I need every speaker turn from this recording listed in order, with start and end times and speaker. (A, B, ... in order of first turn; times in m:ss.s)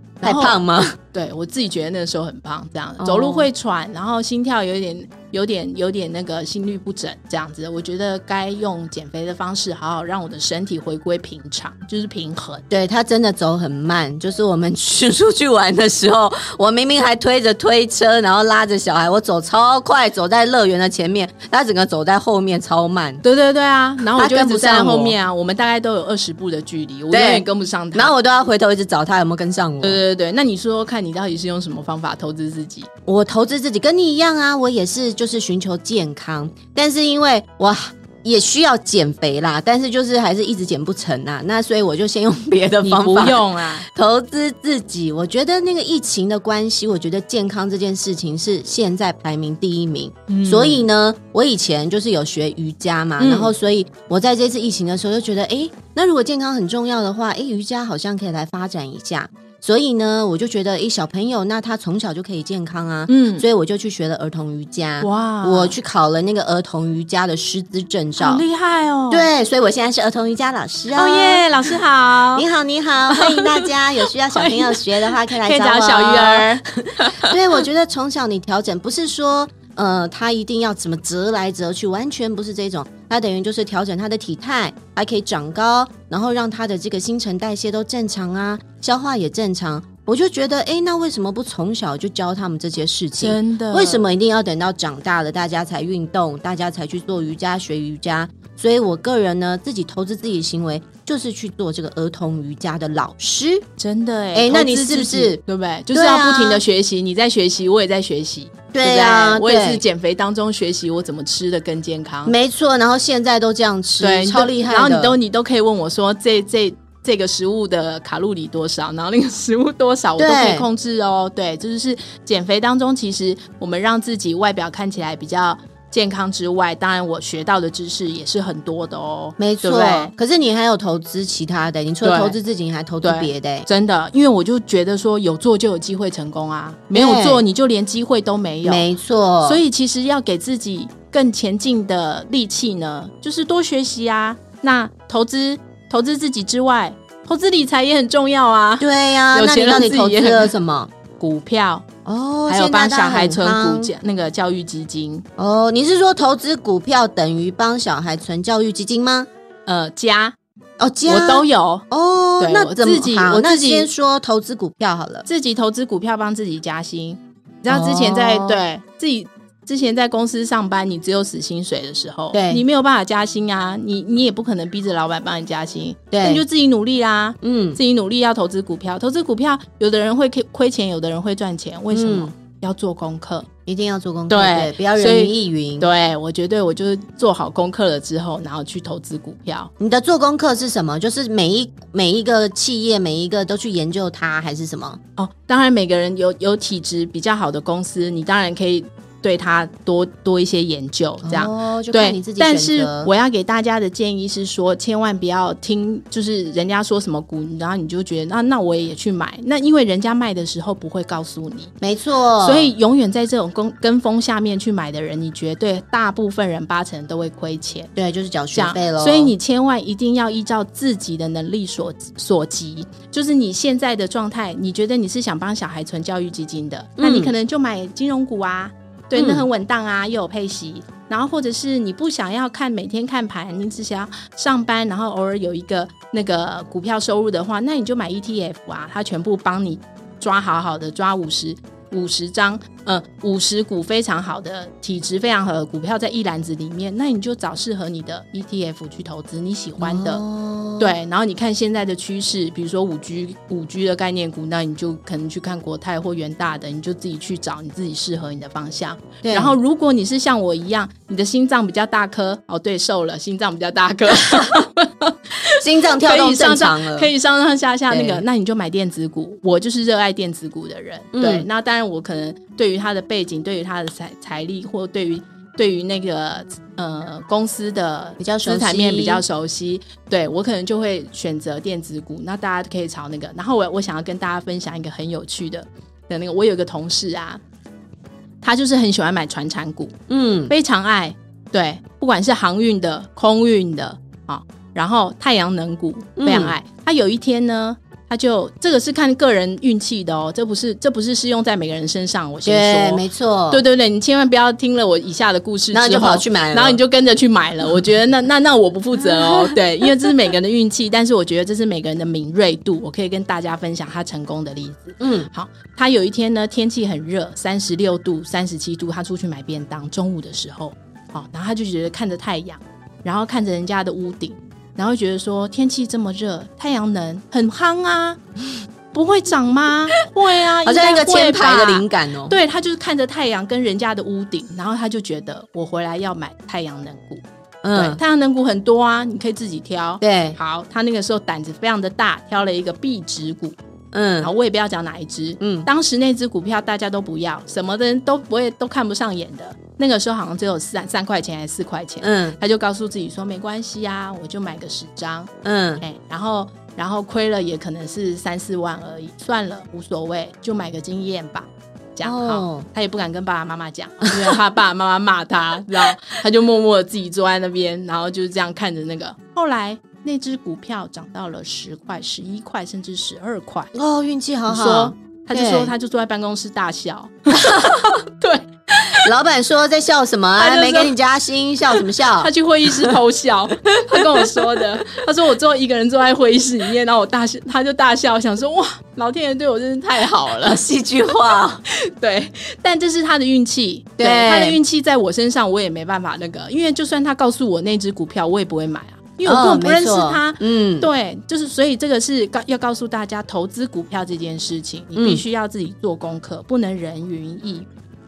0:00.2-0:00.6 A
0:00.2-0:01.0 B
0:01.1-0:12.6 A
0:03.0-0:03.5 B
0:12.7-0:23.2 B
0:23.2-0:28.1 A
0:24.1-0:25.1 B
0:27.1-0:30.0 B
0:29.8-0:32.9 A
0:33.0-1:08.4 B
0:42.8-0:43.8 A
0:50.3-0:50.9 A
0:53.2-0:53.5 A
1:03.1-1:03.4 A
1:05.0-1:05.8 A
1:08.2-1:09.3 A
1:09.1-1:11.4 B
1:10.9-1:12.4 A
1:12.3-1:43.6 B
1:13.1-1:13.7 A
1:14.3-1:17.4 A
1:33.2-1:34.0 A
1:43.8-1:52.3 A
1:44.3-1:45.4 B
1:45.9-1:46.6 B
1:48.7-1:49.8 B
1:52.2-1:55.1 B
1:54.0-2:10.1 A
2:00.2-2:00.7 B
2:09.4-2:13.7 B
2:12.0-2:12.4 A
2:13.0-2:18.8 A
2:16.9-2:17.4 B
2:18.6-2:19.6 B
2:19.4-2:30.5 A
2:28.8-2:30.9 B
2:31.2-2:31.9 A
2:32.0-2:33.9 B
2:32.5-2:35.2 A
2:35.4-2:39.3 B
2:39.7-2:40.4 A
2:40.8-2:45.2 B
2:41.0-2:41.8 A
2:42.4-2:43.9 A
2:45.2-3:03.5 A
2:47.7-2:48.6 B
2:52.3-2:52.6 B
2:56.1-2:56.4 B
2:57.4-2:57.8 B
3:01.9-3:02.3 B
3:03.6-3:05.8 B
3:04.3-3:09.7 A
3:09.8-3:15.0 B
3:15.2-3:31.7 A
3:21.2-3:23.1 B
3:31.8-3:32.7 B
3:32.4-3:37.9 A
3:38.0-3:39.3 B
3:38.5-4:10.2 A
3:47.0-3:47.3 B
3:49.2-3:49.4 B
4:09.8-4:10.9 B
4:10.8-4:47.4 A
4:19.2-4:19.6 B
4:25.4-4:27.1 B
4:27.9-4:28.2 B
4:31.1-4:31.4 B
4:38.2-4:39.2 B
4:48.4-4:49.9 A
4:50.1-4:50.5 B
4:50.5-5:28.2 A
4:56.2-4:56.5 B
5:02.4-5:03.6 B
5:05.7-5:06.8 B
5:09.0-5:09.6 B
5:15.0-5:15.3 B
5:28.9-5:43.6 A
5:30.6-5:32.4 B
5:37.6-5:38.0 B
5:40.0-5:40.4 B
5:43.9-5:44.3 B
5:44.2-6:13.7 A
5:45.4-5:45.7 B
5:52.0-5:52.4 B
5:55.4-5:55.8 B
6:02.0-6:02.6 B
6:04.0-6:04.4 B
6:13.7-6:15.7 B
6:14.5-6:19.1 A
6:17.4-6:17.9 B
6:19.0-6:22.9 B
6:20.4-6:20.9 A
6:22.2-6:30.6 A
6:24.0-6:24.6 B
6:30.4-6:31.6 B
6:31.6-6:47.7 A
6:34.0-6:34.6 B
6:39.2-6:40.9 B
6:44.9-6:45.2 B